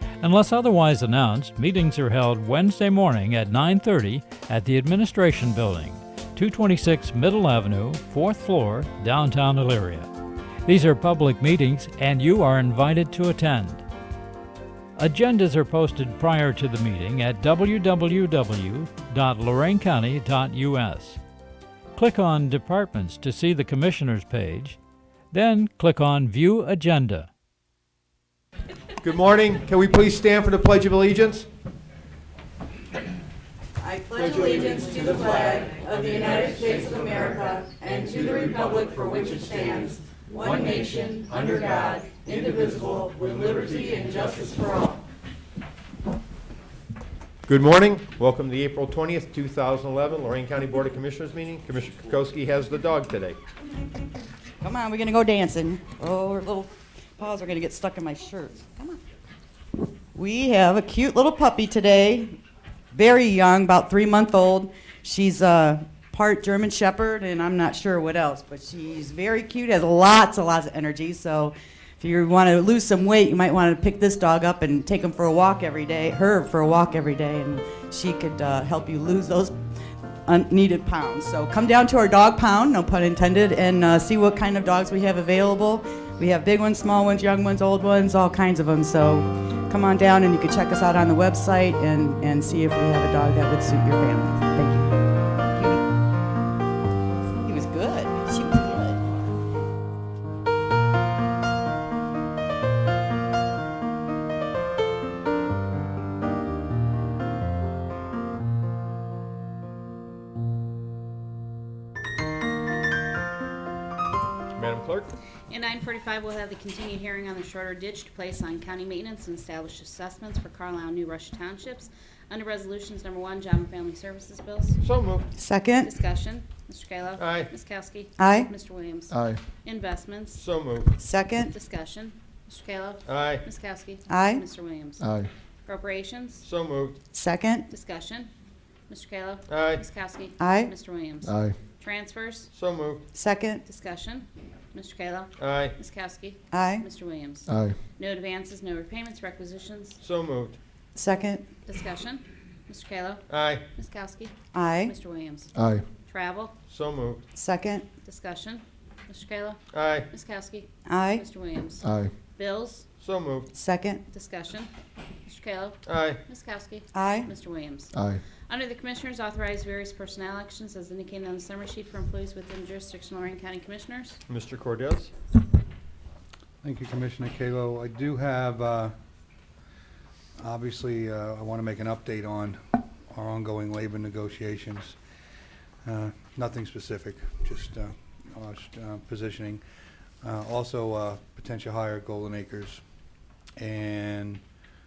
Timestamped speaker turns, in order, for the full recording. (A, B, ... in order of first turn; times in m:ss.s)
0:00.2-0:10.1 A
0:10.6-0:13.8 A
0:15.0-0:21.2 A
0:21.9-0:24.8 A
0:25.3-0:27.3 A
0:29.0-0:31.5 B
0:33.8-0:45.0 C
0:47.5-0:53.4 B
0:54.6-0:59.0 C
1:00.1-1:02.4 C
1:02.9-1:19.5 C
1:20.2-1:34.9 C
1:35.5-1:35.8 C
1:37.4-1:39.0 C
1:54.5-1:55.1 B
1:55.5-2:04.8 D
2:04.8-2:05.3 B
2:05.4-2:05.9 C
2:05.8-2:10.4 D
2:07.2-2:07.5 B
2:08.2-2:08.5 C
2:09.1-2:09.4 E
2:10.4-2:10.9 B
2:11.0-2:11.5 C
2:11.4-2:15.0 D
2:13.0-2:13.4 B
2:14.1-2:14.4 C
2:15.0-2:15.3 E
2:15.6-2:16.4 D
2:16.4-2:17.0 B
2:17.1-2:17.7 C
2:17.7-2:18.3 D
2:18.9-2:22.5 D
2:19.5-2:19.8 B
2:20.4-2:20.7 C
2:21.2-2:21.6 E
2:22.5-2:23.0 B
2:23.1-2:23.6 C
2:23.6-2:30.0 D
2:25.4-2:25.8 B
2:26.5-2:26.9 C
2:27.5-2:27.8 E
2:30.0-2:30.6 B
2:30.9-2:31.4 C
2:31.7-2:35.5 D
2:33.3-2:33.6 B
2:34.5-2:34.9 C
2:35.5-2:35.8 E
2:36.0-2:36.5 D
2:36.7-2:37.2 B
2:37.3-2:37.8 C
2:38.0-2:42.9 D
2:39.7-2:40.1 B
2:40.8-2:41.2 C
2:41.8-2:42.1 E
2:43.0-2:43.5 B
2:43.5-2:44.0 C
2:44.1-2:44.7 D
2:45.2-2:47.9 D
2:45.8-2:46.2 B
2:46.9-2:47.3 C
2:47.9-2:48.2 E
2:48.5-2:54.2 D
2:54.3-2:55.1 B
2:56.6-2:58.9 F
3:00.4-3:05.0 F
3:05.8-3:09.6 F
3:10.2-3:12.8 F
3:13.6-3:14.4 F